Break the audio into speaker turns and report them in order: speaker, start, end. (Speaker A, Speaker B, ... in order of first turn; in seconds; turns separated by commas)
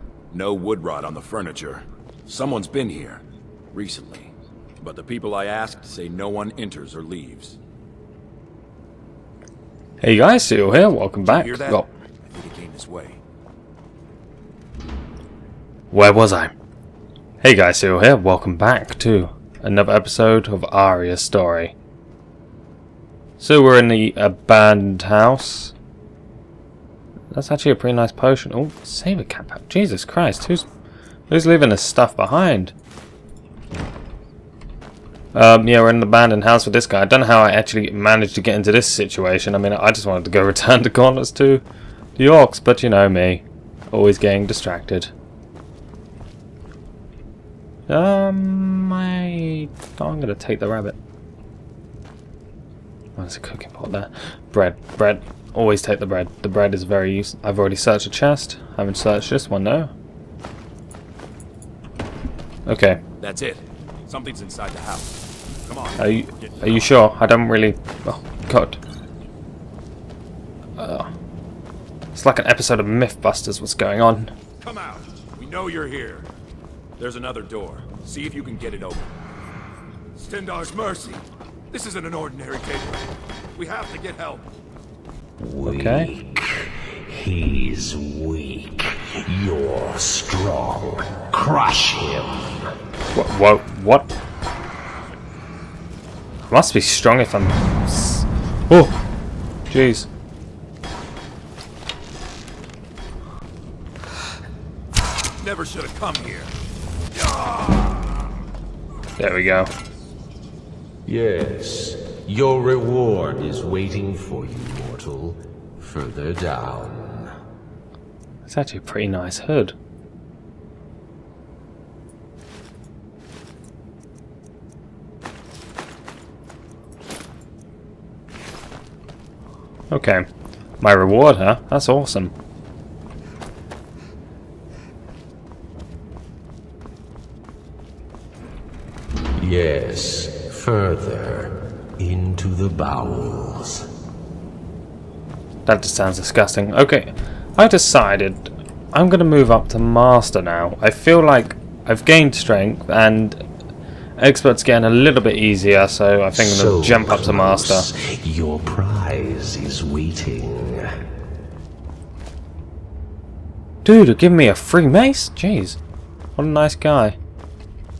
Speaker A: 0.3-7.6, Speaker B: 10.0-11.9, Speaker A: 11.2-13.2, Speaker B: 15.9-16.5, Speaker B: 17.4-21.7, Speaker B: 23.4-25.7, Speaker B: 27.3-30.6, Speaker B: 31.3-32.7, Speaker B: 35.3-41.6, Speaker B: 42.2-45.1, Speaker B: 47.9-51.0, Speaker B: 53.2-59.9, Speaker B: 62.7-63.0, Speaker A: 63.2-65.1, Speaker A: 65.6-67.0, Speaker B: 66.0-68.8, Speaker B: 70.8-71.1, Speaker B: 72.1-74.3, Speaker A: 74.6-76.3, Speaker A: 77.0-79.0, Speaker A: 80.2-83.0, Speaker A: 83.5-84.5, Speaker C: 85.4-92.7, Speaker B: 85.6-86.1, Speaker B: 93.1-94.1, Speaker B: 96.5-99.0, Speaker B: 99.7-100.1, Speaker A: 105.4-106.5, Speaker A: 107.1-108.2, Speaker B: 109.2-109.7, Speaker C: 111.0-117.3, Speaker B: 118.5-119.7, Speaker B: 129.9-130.2, Speaker B: 130.8-132.3, Speaker C: 139.4-143.9, Speaker B: 145.7-153.4, Speaker B: 154.2-157.9, Speaker C: 156.3-161.0, Speaker B: 163.8-165.8, Speaker B: 166.4-167.2